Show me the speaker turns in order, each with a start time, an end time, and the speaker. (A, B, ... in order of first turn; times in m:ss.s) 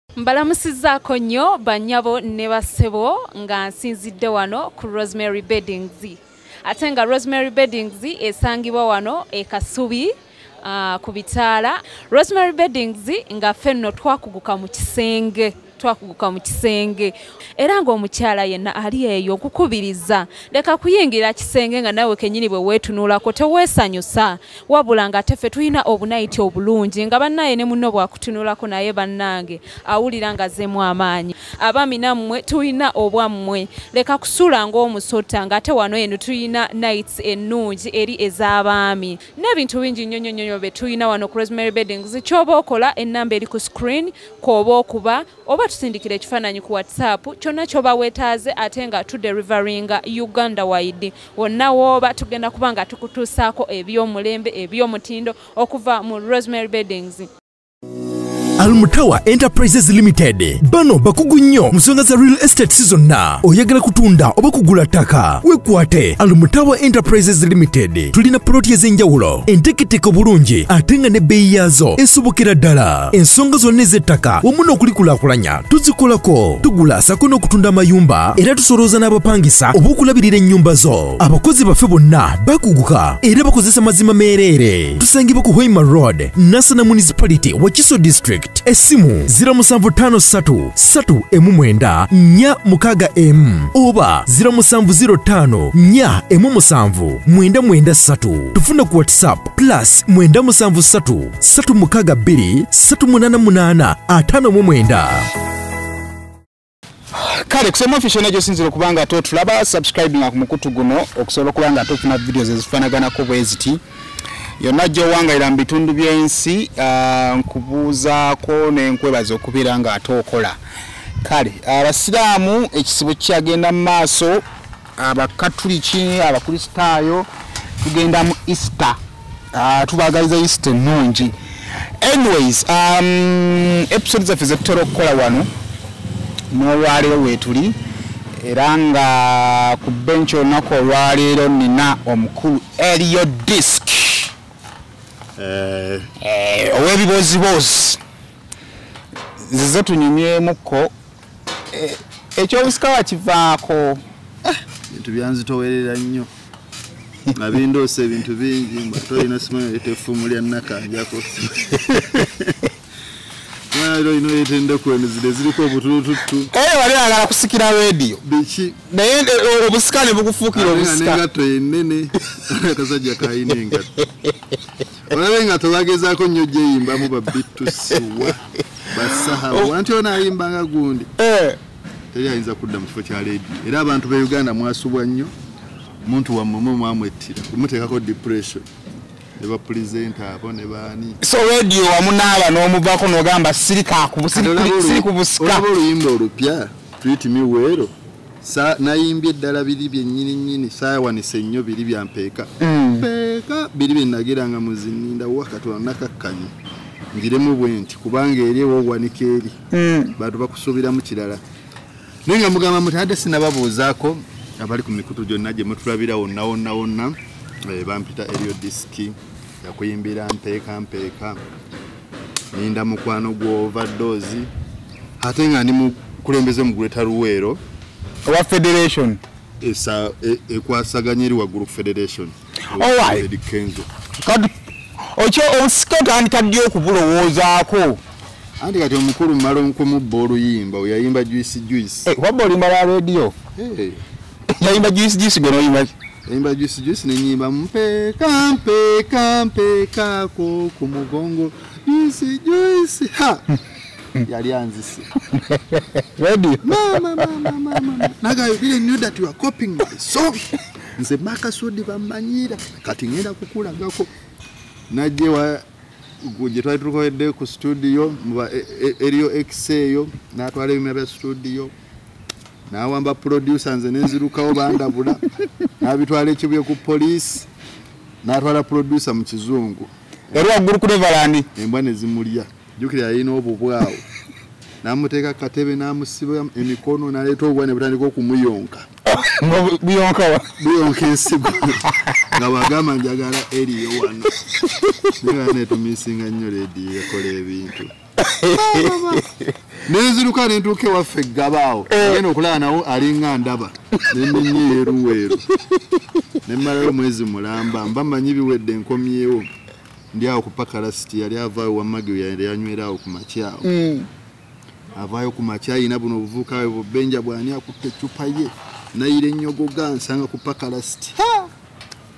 0:00.2-0:57.3 A
0:58.6-1:45.3 B
1:47.1-1:53.8 C
1:54.6-2:00.6 C
2:01.2-2:04.4 C
2:05.0-2:07.3 C
2:07.8-2:09.0 C
2:09.5-2:11.3 C
2:12.0-2:15.5 C
2:16.5-2:17.8 C
2:18.4-2:24.3 C
2:25.4-2:26.1 D
2:26.2-2:28.0 C
2:29.5-2:30.9 C
2:31.7-2:34.0 C
2:34.4-2:36.3 D
2:37.3-2:42.6 D
2:43.7-2:46.5 D
2:46.5-2:48.2 C
2:48.2-2:48.8 D
2:48.9-2:51.2 C
2:50.5-2:54.0 D
2:55.1-3:01.1 D
3:01.2-3:01.6 C
3:02.1-3:05.3 D
3:06.0-3:08.7 D
3:09.4-3:11.2 D
3:11.2-3:15.7 C
3:14.3-3:26.5 D
3:22.6-3:23.1 C
3:27.1-3:29.6 D
3:29.7-3:30.1 C
3:30.2-3:31.4 D
3:32.2-3:41.4 D
3:42.5-3:44.5 D
3:45.2-3:47.6 D
3:48.2-3:49.2 C
3:49.6-3:53.9 D
3:52.8-3:53.2 C
3:54.2-3:54.5 C
3:55.2-3:58.0 C
3:58.6-4:02.1 D
4:02.1-4:03.3 C
4:03.6-4:04.0 D
4:04.5-4:05.9 C
4:06.3-4:13.4 D
4:14.2-4:15.1 D
4:15.4-4:17.0 C
4:16.6-4:24.1 D
4:24.9-4:25.6 D
4:26.2-4:31.7 D
4:32.7-4:35.2 D
4:35.8-4:37.5 D
4:38.2-4:40.5 D
4:40.3-4:41.5 C
4:41.6-4:44.0 D
4:44.8-4:48.9 D
4:49.0-4:50.5 C
4:50.6-4:54.4 D
4:55.2-4:57.9 D
4:58.2-4:59.5 C
4:58.5-4:59.2 D
4:59.8-5:05.5 D
5:01.9-5:02.2 C
5:06.4-5:09.5 D
5:10.1-5:13.7 D
5:13.6-5:14.1 C
5:15.0-5:21.2 D